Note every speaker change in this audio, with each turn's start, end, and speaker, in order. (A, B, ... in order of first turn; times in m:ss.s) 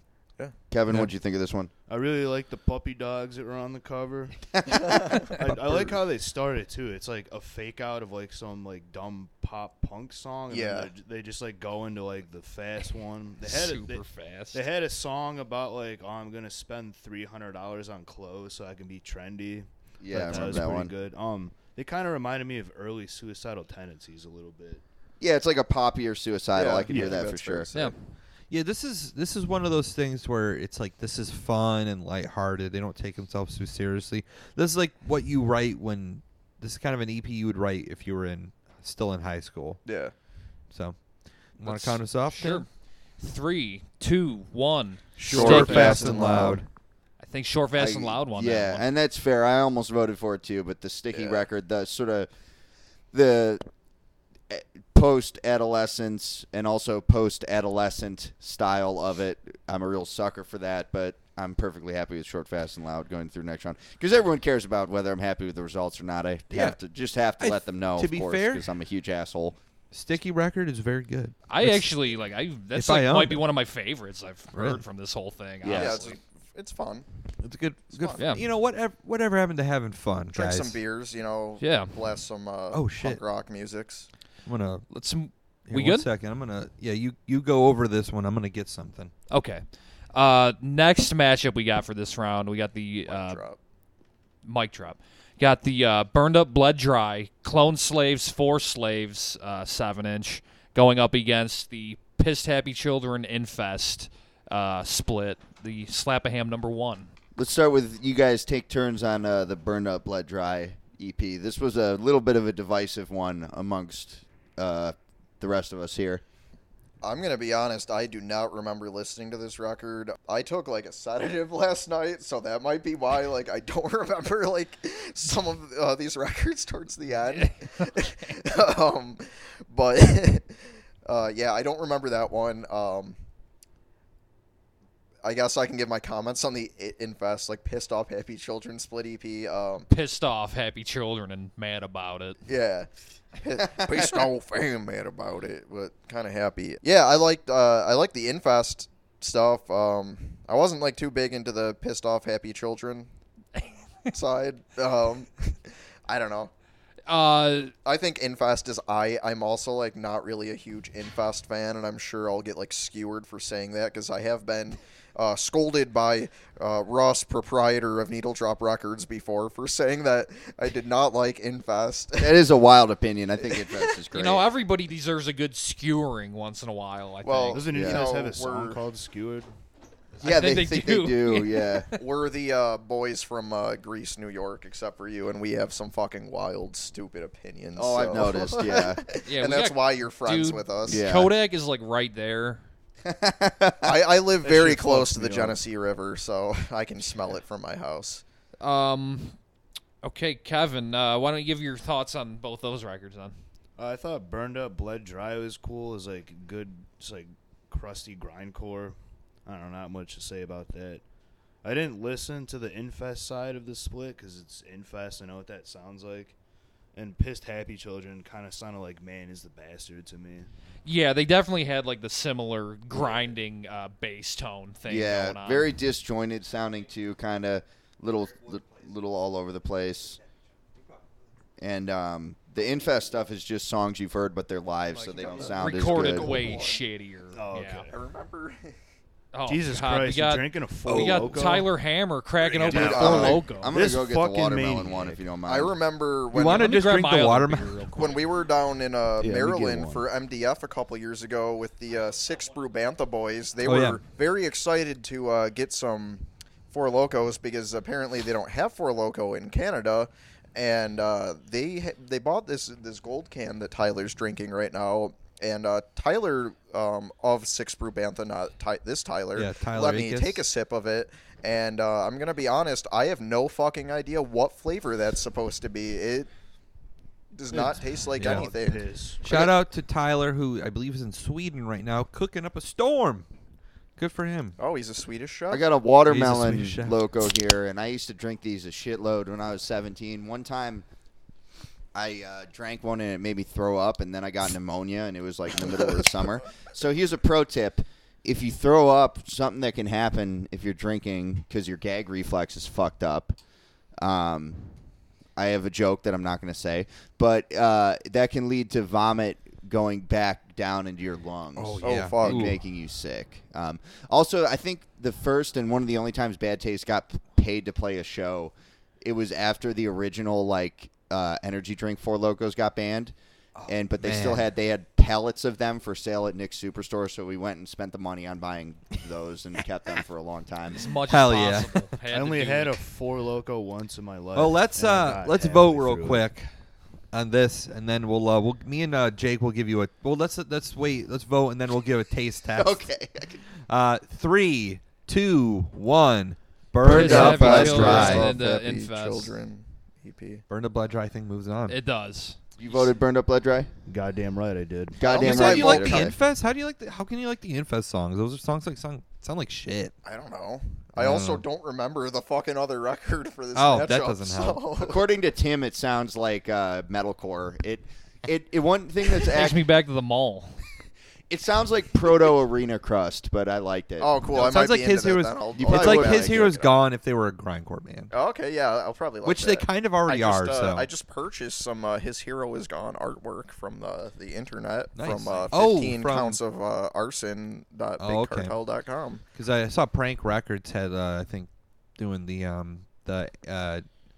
0:00.7-0:01.7 A
0:01.9-0:24.8 B
0:04.6-0:05.2 A
0:10.5-0:10.9 C
0:13.4-0:14.6 D
0:20.0-0:20.9 A
0:25.2-0:27.7 A
0:26.5-0:27.9 C
0:28.5-0:39.8 E
0:39.8-0:40.1 C
0:40.7-0:41.0 E
0:41.6-0:42.6 E
0:42.3-0:42.7 D
0:43.2-0:46.2 D
0:45.2-0:46.4 C
0:45.3-0:46.7 E
0:45.3-0:46.6 A
0:47.2-0:48.8 D
0:47.8-0:52.3 A
0:51.1-0:51.4 C
0:53.1-0:53.6 A
0:54.5-1:09.6 A
1:06.5-1:06.8 E
1:07.4-1:08.7 E
1:09.9-1:11.9 E
1:11.5-1:16.2 D
1:12.7-1:13.4 E
1:14.5-1:14.8 E
1:15.6-1:16.0 A
1:15.7-1:17.0 C
1:17.4-1:20.8 E
1:17.9-1:18.3 C
1:18.2-1:18.4 D
1:20.3-1:24.1 C
1:21.6-1:21.9 D
1:22.7-1:23.2 E
1:24.4-1:24.8 E
1:24.9-1:26.1 D
1:25.7-1:29.1 E
1:29.3-1:33.4 D
1:33.1-1:33.6 C
1:34.4-1:47.1 D
1:47.3-1:56.2 A
1:57.0-2:13.2 C
2:07.3-2:08.4 D
2:15.2-2:19.9 C
2:19.9-2:22.4 D
2:22.4-2:33.1 C
2:23.6-2:24.3 A
2:34.1-2:36.5 C
2:37.1-2:37.7 D
2:37.8-2:52.4 C
2:52.2-2:54.5 A
2:54.1-2:57.6 D
2:57.2-2:58.8 C
2:57.5-2:59.5 B
2:57.7-2:58.0 A
3:00.2-3:02.0 D
3:00.2-3:01.9 A
3:01.9-3:11.0 C
3:07.8-3:09.0 A
3:09.2-3:12.6 D
3:10.8-3:11.4 A
3:13.0-3:14.0 A
3:13.8-3:18.2 C
3:14.4-3:15.6 B
3:18.6-3:19.4 D
3:20.0-3:23.3 D
3:23.8-3:31.0 B
3:31.6-3:36.3 B
3:36.9-3:40.5 B
3:40.8-3:45.7 D
3:44.9-3:50.2 A
3:51.6-3:56.4 A
3:54.9-3:56.8 C
3:55.2-3:55.5 B
3:55.5-3:57.8 D
3:57.3-3:58.0 B
3:57.9-3:58.8 C
3:59.3-4:03.7 D
3:59.5-4:01.7 B
4:00.8-4:01.4 E
4:02.4-4:03.4 C
4:02.7-4:05.8 A
4:02.7-4:05.2 B
4:05.4-4:06.8 C
4:06.3-4:07.9 E
4:06.4-4:08.2 D
4:07.9-4:36.3 C
4:09.2-4:10.0 B
4:13.6-4:14.0 E
4:29.4-4:30.4 E
4:37.3-4:39.5 C
4:37.5-4:39.2 B
4:38.2-4:38.4 E
4:39.2-4:43.3 E
4:44.0-4:44.6 E
4:44.6-4:45.7 C
4:45.5-4:50.8 A
4:46.0-4:47.0 E
4:51.9-5:03.4 A
4:55.7-4:56.2 C
5:04.0-5:04.7 A
5:05.4-5:23.1 A
5:11.6-5:12.6 E
5:11.8-5:12.5 C
5:23.6-5:24.5 E
5:23.6-5:30.9 A
5:30.7-5:32.8 D
5:31.1-5:32.0 E
5:32.1-5:36.3 B
5:34.3-5:36.5 E
5:37.1-5:42.8 E
5:42.6-5:43.4 A
5:43.7-5:48.3 E
5:46.8-5:48.3 A
5:46.8-5:49.4 D
5:47.1-5:50.4 C
5:50.5-5:51.8 E
5:51.7-5:52.4 D
5:52.6-5:53.7 A
5:53.9-5:55.1 B
5:55.0-5:56.2 A
5:55.0-5:56.1 C
5:55.1-5:59.9 E
6:00.0-6:05.0 C
6:01.0-6:01.4 E
6:03.5-6:04.6 E
6:04.8-6:09.6 A
6:09.2-6:10.6 D
6:11.3-6:14.1 A
6:14.0-6:16.7 C
6:14.3-6:18.1 E
6:15.5-6:16.5 A
6:18.1-6:29.2 C
6:19.2-6:20.9 E
6:25.0-6:26.4 E
6:28.0-6:28.5 E
6:29.3-6:33.8 E